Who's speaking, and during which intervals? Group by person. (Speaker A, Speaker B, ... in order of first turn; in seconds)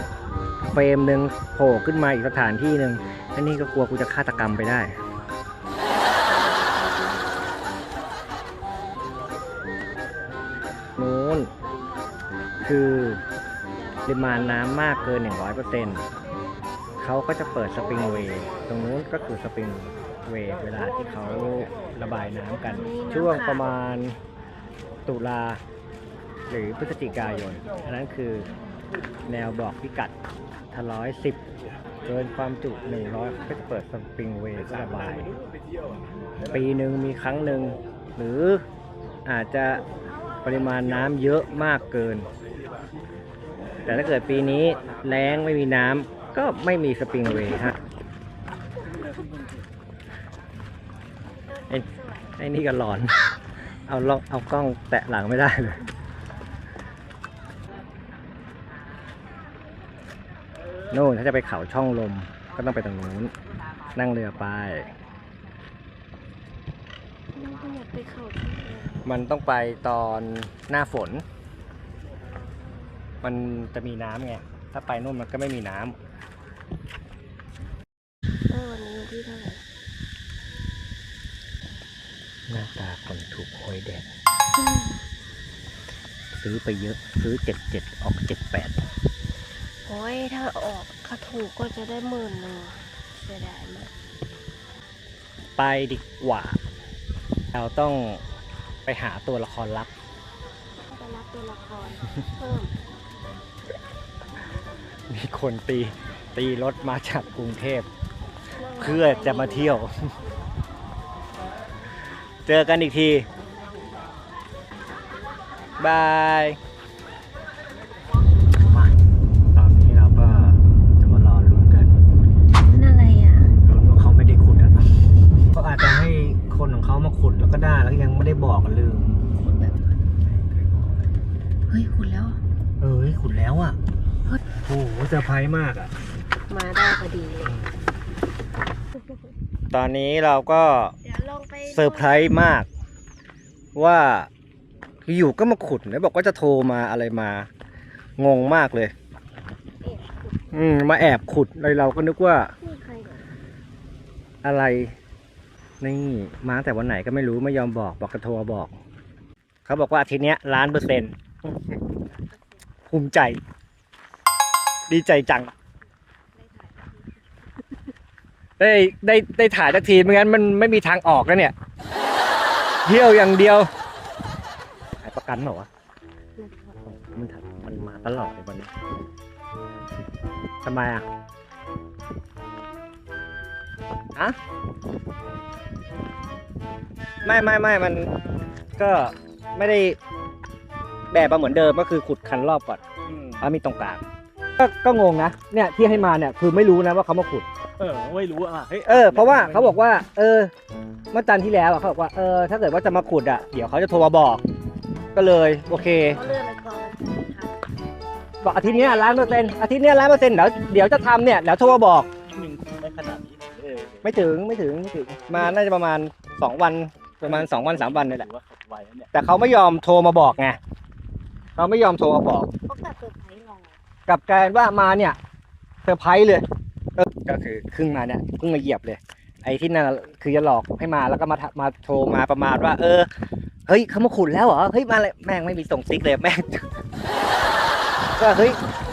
Speaker A: 0.7-4.9, 11.0-11.5, 12.6-13.2, 14.1-16.1, 17.0-24.2, 25.1-25.6, 26.5-28.5, 29.3-30.1, 30.7-31.4, 32.0-35.4, 36.5-38.6, 39.3-39.8, 40.4-42.3, 43.9-47.8, 52.4-53.3, 53.9-55.9, 60.9-63.3, 64.0-64.9, 69.0-71.2, 73.2-76.0, 82.5-84.1, 86.4-88.8, 95.6-96.6, 97.5-98.2, 98.9-99.9, 105.1-107.9, 108.8-110.1, 112.5-113.3, 115.8-116.6, 118.6-118.9, 119.5-121.9, 123.6-124.9, 125.5-129.2, 130.3-130.9, 132.8-133.8, 134.5-135.9, 137.5-137.8, 139.7-140.9, 141.7-142.7, 143.8-144.3, 145.1-147.5, 148.2-148.9, 150.5-152.5, 154.4-155.0, 155.8-158.8, 159.7-161.8, 162.9-163.4, 164.9-165.5, 168.6-171.5, 172.8-173.7, 175.0-175.7, 176.8-178.7, 180.7-181.1, 187.2-188.1, 188.8-190.0, 191.1-192.8, 193.4-194.0, 194.6-197.5, 198.8-200.5, 201.1-204.4, 205.2-206.2, 208.4-212.1, 214.0-218.3, 219.1-220.6, 221.6-222.5, 224.1-225.2, 225.8-233.1, 233.7-236.7, 238.2-238.6
Speaker B: 5.9-7.4, 22.7-23.8, 51.3-52.4, 67.3-69.2, 72.1-72.9, 78.5-79.6, 84.6-84.9, 89.9-93.9, 100.8-102.8, 108.5-109.8, 122.5-123.5, 129.3-129.8, 131.7-132.4, 136.5-137.6, 141.0-142.3, 149.8-150.7, 152.6-153.3, 162.3-162.6, 166.3-167.3, 176.4-176.8, 206.0-207.6, 208.5-209.7, 222.7-223.8
Speaker C: 193.1-193.5, 197.8-199.8, 212.2-214.3, 217.2-219.1